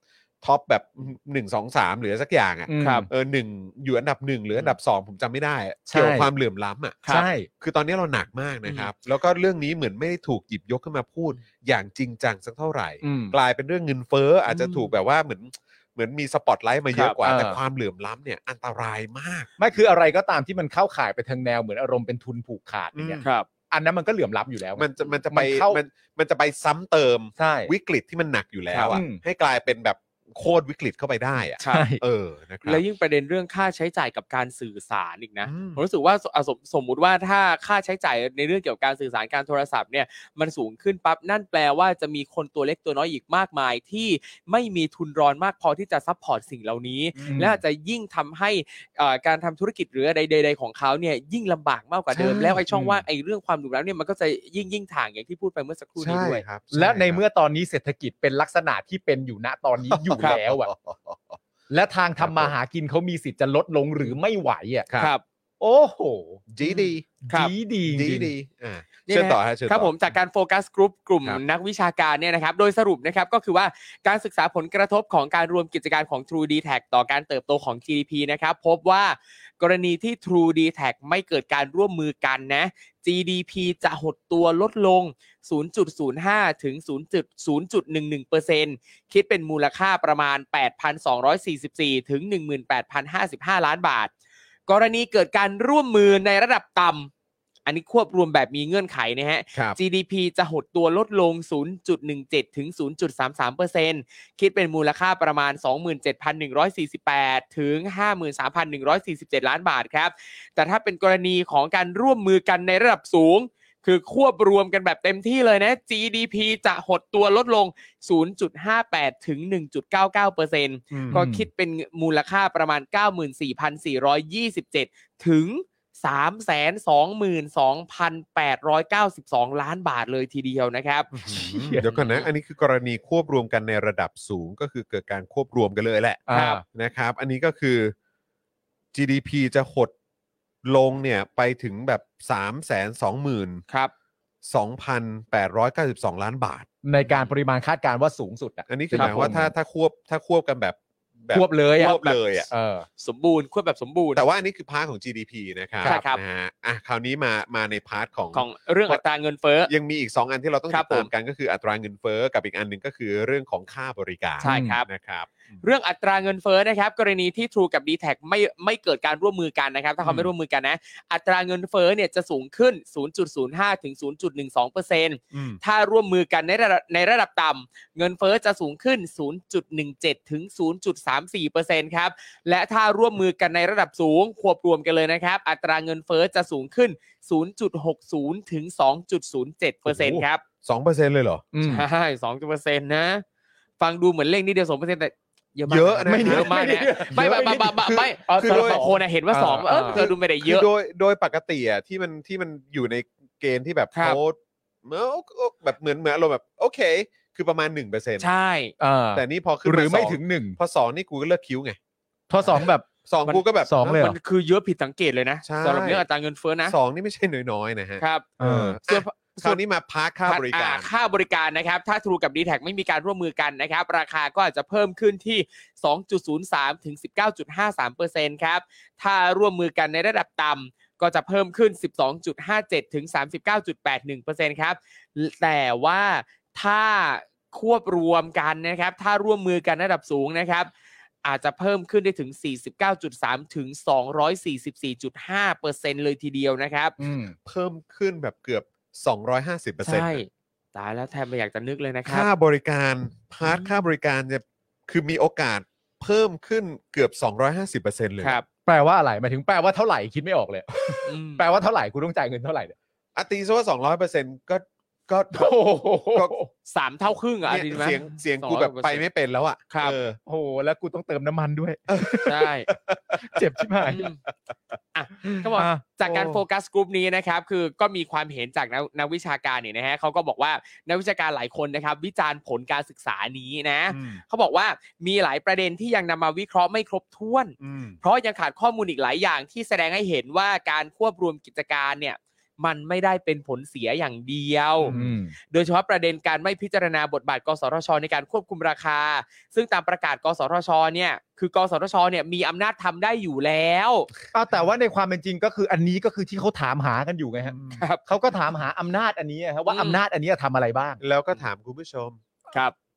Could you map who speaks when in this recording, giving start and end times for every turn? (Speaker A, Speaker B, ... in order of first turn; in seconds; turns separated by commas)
Speaker A: 0.4-7.0, Speaker B: 2.7-3.1, Speaker C: 2.8-3.0, Speaker B: 5.9-6.3, Speaker B: 7.1-7.5, Speaker A: 7.6-19.5, Speaker C: 8.6-8.9, Speaker B: 13.0-13.3, Speaker C: 14.5-14.9, Speaker C: 16.9-17.2, Speaker B: 17.2-17.6, Speaker B: 19.6-25.8, Speaker A: 22.9-23.3, Speaker A: 24.8-32.8, Speaker B: 27.4-27.7, Speaker B: 28.9-29.2, Speaker C: 31.6-31.9, Speaker B: 31.6-32.0, Speaker C: 32.6-56.4, Speaker A: 35.4-35.8, Speaker B: 47.2-47.6, Speaker A: 52.1-53.0, Speaker A: 56.0-57.2, Speaker B: 56.7-60.7, Speaker A: 59.9-61.4, Speaker B: 61.7-64.9, Speaker A: 62.2-62.5, Speaker B: 65.6-66.5, Speaker A: 66.5-67.0, Speaker B: 67.2-68.3, Speaker A: 67.8-69.9, Speaker C: 69.0-94.1, Speaker C: 94.7-97.1, Speaker C: 97.7-131.1, Speaker A: 120.9-121.2, Speaker B: 121.1-121.5, Speaker A: 131.1-137.9, Speaker B: 131.3-131.9, Speaker C: 131.8-132.3, Speaker B: 136.3-136.6, Speaker C: 136.3-136.6, Speaker A: 138.9-139.9, Speaker A: 140.6-143.6, Speaker A: 144.4-146.7, Speaker B: 146.8-149.5, Speaker A: 148.7-152.5, Speaker C: 148.9-149.2, Speaker B: 151.3-152.8, Speaker C: 151.8-152.2, Speaker C: 153.0-154.2, Speaker A: 154.1-159.0, Speaker B: 155.8-156.1, Speaker C: 155.8-156.2, Speaker C: 158.3-159.7, Speaker A: 159.7-165.3, Speaker C: 160.7-161.1, Speaker C: 164.4-164.8, Speaker B: 164.4-164.8, Speaker C: 165.6-190.4, Speaker A: 170.0-170.3, Speaker A: 175.3-175.6, Speaker A: 189.8-191.4, Speaker B: 191.5-191.8, Speaker C: 191.6-193.2, Speaker C: 193.8-200.7, Speaker A: 195.7-198.9, Speaker B: 196.1-200.1, Speaker A: 199.8-208.3, Speaker C: 203.9-204.2, Speaker C: 208.2-208.7, Speaker B: 208.8-210.6, Speaker A: 209.1-211.8, Speaker B: 212.3-212.8, Speaker A: 212.4-214.0, Speaker C: 213.3-216.8, Speaker B: 213.6-214.2, Speaker A: 215.4-216.0, Speaker A: 216.7-220.9, Speaker C: 218.0-218.3, Speaker B: 218.4-218.8, Speaker C: 218.9-219.6, Speaker C: 220.2-240.7, Speaker C: 241.2-246.9, Speaker B: 247.0-247.3, Speaker A: 247.4-250.2, Speaker C: 249.8-252.3, Speaker A: 252.1-258.4, Speaker B: 258.6-262.7, Speaker C: 261.1-261.4, Speaker A: 263.1-265.6, Speaker B: 265.3-266.5, Speaker C: 266.7-269.0, Speaker A: 267.5-270.2, Speaker C: 269.7-270.0, Speaker B: 270.2-272.4, Speaker A: 271.9-274.1, Speaker C: 272.2-272.7, Speaker B: 273.2-274.1, Speaker C: 273.9-274.2, Speaker C: 274.9-294.9, Speaker B: 275.2-275.8, Speaker A: 276.0-276.4, Speaker A: 283.9-284.2, Speaker A: 287.6-288.0, Speaker A: 294.8-295.1, Speaker B: 294.9-295.3, Speaker C: 295.5-304.1, Speaker B: 304.3-311.0, Speaker A: 307.5-307.8, Speaker C: 307.7-308.0, Speaker C: 309.7-310.0, Speaker A: 311.0-312.2